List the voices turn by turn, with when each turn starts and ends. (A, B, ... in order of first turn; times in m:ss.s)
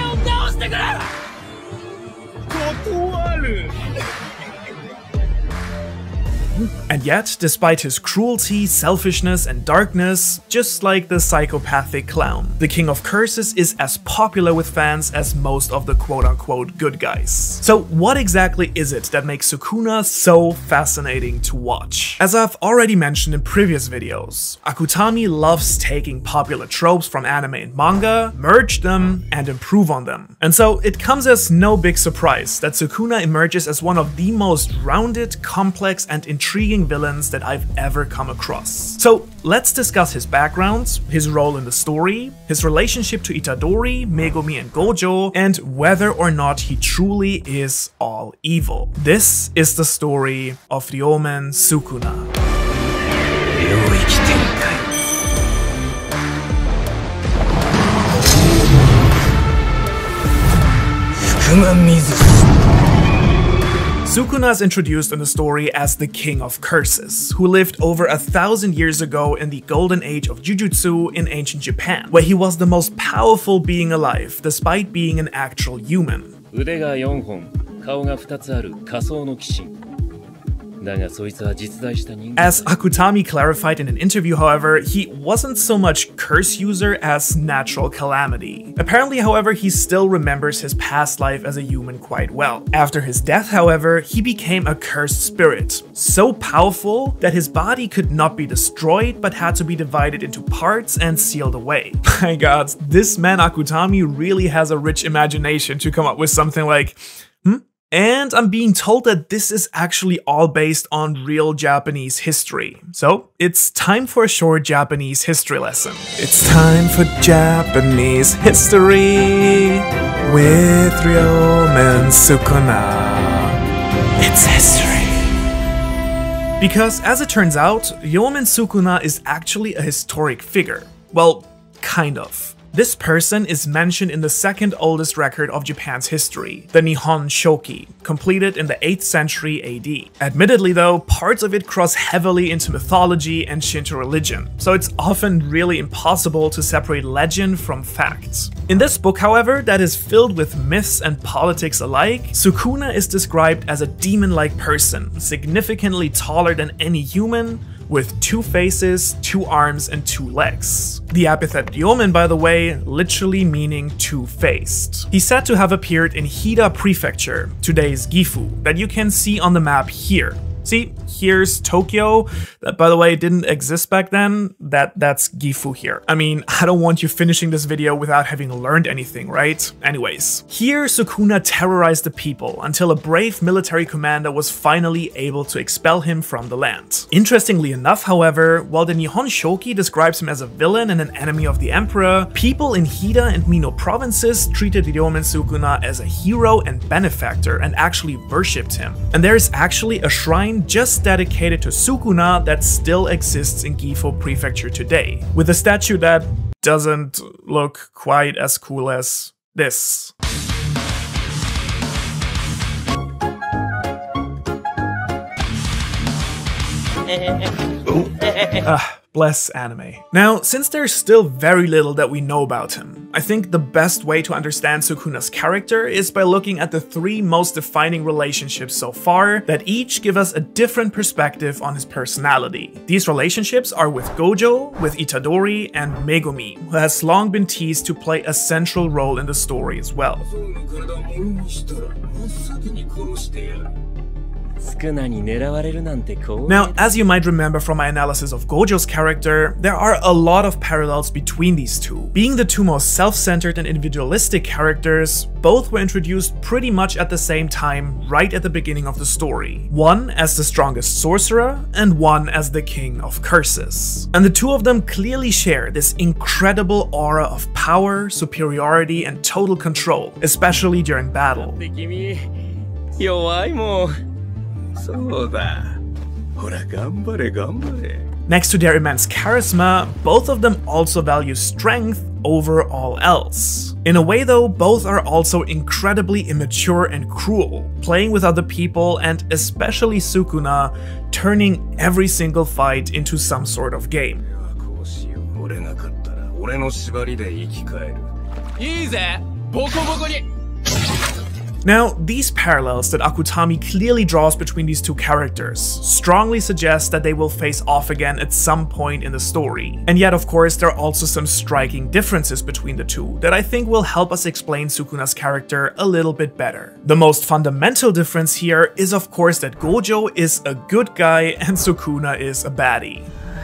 0:00.1-0:00.9 A
0:02.6-0:03.7 A
0:06.9-0:52.3 B
0:53.6-0:54.8 A
1:01.4-1:02.4 A
1:04.0-1:16.4 B
1:16.5-1:19.7 C
1:20.8-1:22.3 C
1:22.4-2:03.6 B
2:04.2-2:05.4 B
2:06.6-3:30.1 B
3:38.5-4:00.3 B
4:00.2-4:03.7 A
4:04.6-4:06.7 C
4:06.5-4:31.6 B
4:31.7-4:32.2 C
4:33.0-4:33.8 C
4:33.1-4:33.9 A
4:34.8-4:35.8 A
4:36.4-4:38.1 A
4:38.3-4:54.2 B
4:54.3-4:58.0 A
4:58.6-5:00.0 C
4:58.8-5:00.2 A
5:01.6-5:23.1 B